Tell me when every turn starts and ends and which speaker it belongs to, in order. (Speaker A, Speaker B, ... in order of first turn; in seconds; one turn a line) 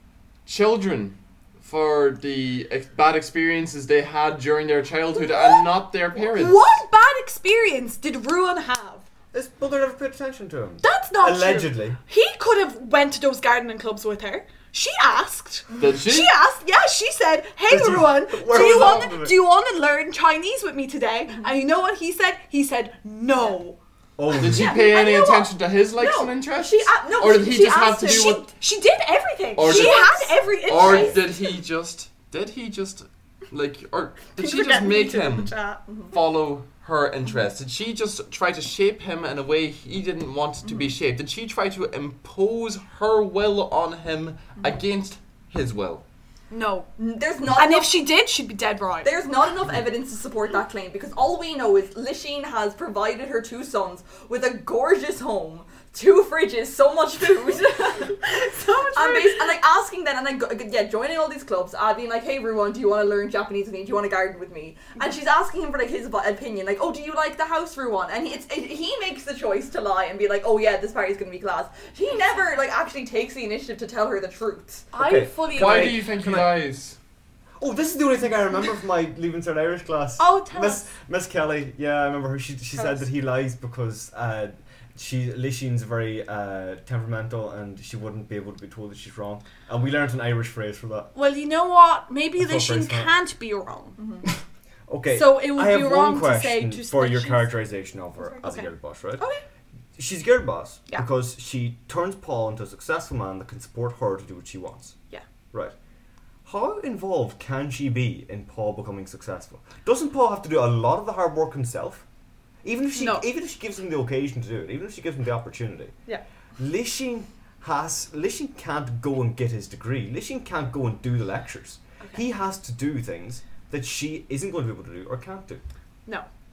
Speaker A: 0.5-6.8
Speaker B: 6.2-9.1
Speaker C: 9.3-12.0
Speaker B: 10.8-23.8
Speaker A: 15.8-16.3
Speaker C: 17.7-19.4
Speaker C: 24.2-24.9
Speaker A: 24.4-28.5
Speaker B: 24.4-25.5
Speaker D: 26.0-28.3
Speaker B: 27.6-31.5
Speaker A: 29.6-35.6
Speaker D: 30.8-31.2
Speaker B: 34.4-35.8
Speaker D: 35.9-36.1
Speaker A: 36.1-46.0
Speaker D: 40.7-40.9
Speaker B: 46.5-46.9
Speaker D: 47.0-47.9
Speaker B: 47.5-49.1
Speaker D: 49.0-58.2
Speaker B: 58.0-59.6
Speaker D: 59.0-74.9
Speaker B: 74.9-76.1
Speaker C: 75.0-76.5
Speaker A: 75.5-77.0
Speaker C: 77.6-91.1
Speaker B: 80.2-80.9
Speaker B: 82.7-83.0
Speaker B: 91.1-94.0
Speaker C: 92.4-93.1
Speaker D: 94.0-94.3
Speaker C: 94.9-99.3
Speaker B: 95.1-97.5
Speaker B: 98.2-99.4
Speaker C: 100.0-105.0
Speaker C: 106.5-112.0
Speaker C: 112.6-115.9
Speaker B: 112.9-113.3
Speaker C: 116.6-125.6